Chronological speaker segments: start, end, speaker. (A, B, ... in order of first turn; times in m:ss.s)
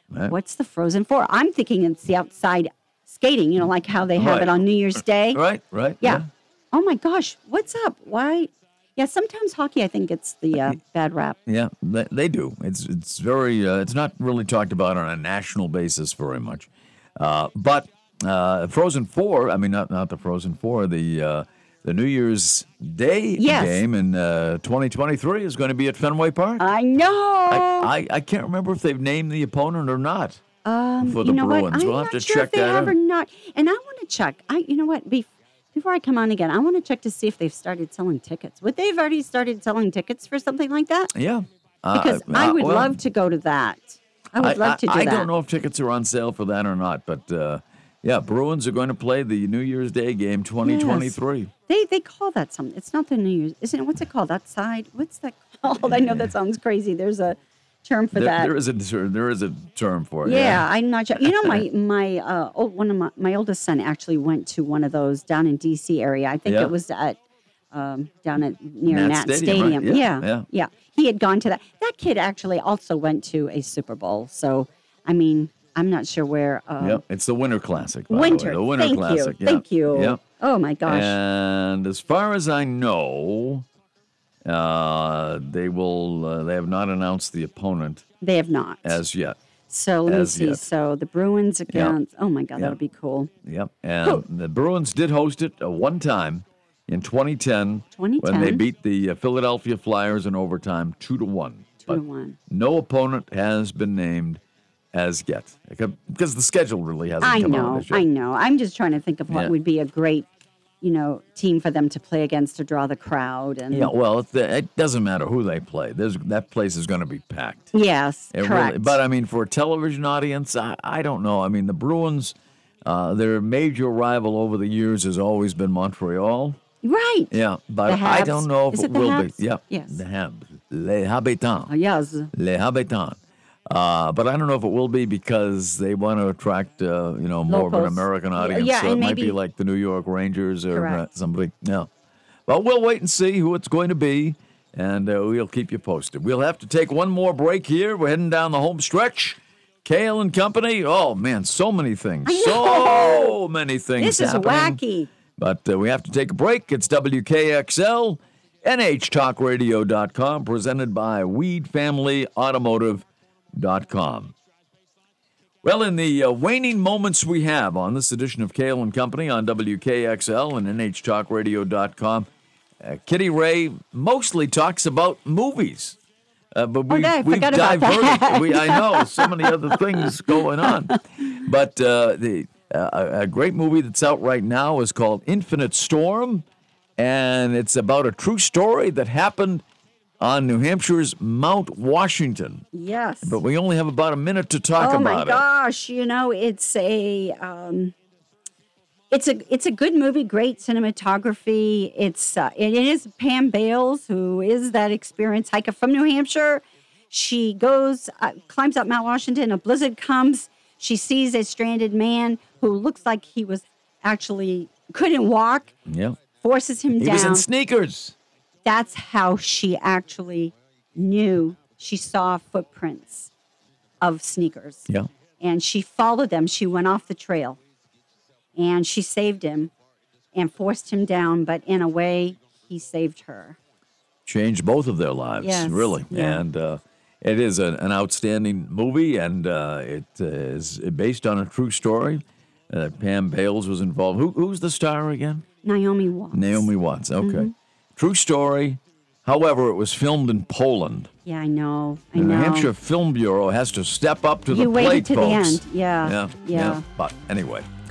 0:00.3-0:05.4 A
0:04.1-0:04.6 B
0:05.3-0:06.3 B
0:06.0-0:11.4 A
0:11.5-0:26.7 B
0:23.4-0:23.8 A
0:26.6-0:27.9 A
0:27.5-0:30.4 B
0:30.6-0:41.1 A
0:31.0-0:32.9 B
0:41.1-0:43.0 B
0:41.9-0:45.3 A
0:44.4-0:51.5 B
0:50.6-0:51.2 A
0:51.7-0:58.5 A
0:58.1-1:00.7 B
1:00.2-1:07.2 A
1:06.4-1:06.7 B
1:07.7-1:17.0 A
1:08.9-1:10.4 B
1:16.8-1:20.2 B
1:18.1-1:21.2 A
1:20.9-1:23.6 B
1:24.4-1:28.0 B
1:28.2-1:29.0 A
1:28.8-1:29.4 B
1:29.7-1:33.3 A
1:30.1-1:30.6 B
1:33.4-1:44.4 B
1:38.0-1:38.6 A
1:41.8-1:42.4 A
1:44.9-1:48.0 B
1:47.2-1:50.3 A
1:50.8-1:53.9 A
1:53.7-1:57.7 B
1:57.7-1:59.0 A
1:58.3-2:06.6 B
2:06.8-2:10.0 A
2:07.3-2:11.7 B
2:11.7-2:12.3 A
2:12.3-2:13.2 B
2:13.7-2:21.9 B
2:17.5-2:19.4 A
2:20.7-2:21.0 A
2:22.5-2:34.8 B
2:32.3-2:33.3 A
2:34.0-2:35.1 A
2:35.4-2:43.0 B
2:43.6-2:44.3 B
2:45.6-2:52.3 B
2:52.8-2:56.0 B
2:56.5-3:06.4 B
2:56.9-3:01.0 A
3:07.0-3:09.6 B
3:10.2-3:12.7 B
3:12.7-3:13.4 A
3:13.2-3:15.4 B
3:14.8-3:17.9 A
3:19.1-3:35.7 A
3:35.9-3:36.2 B
3:36.4-3:37.4 A
3:37.0-3:38.1 B
3:38.6-3:43.3 A
3:44.0-3:44.9 A
3:45.4-3:47.6 A
3:48.6-3:49.7 A
3:50.3-3:53.6 A
3:54.3-4:05.4 B
3:55.4-3:56.4 A
4:05.6-4:06.7 A
4:06.3-4:11.1 B
4:07.2-4:07.5 A
4:11.3-4:12.7 A
4:12.1-4:17.7 B
4:14.5-4:16.8 A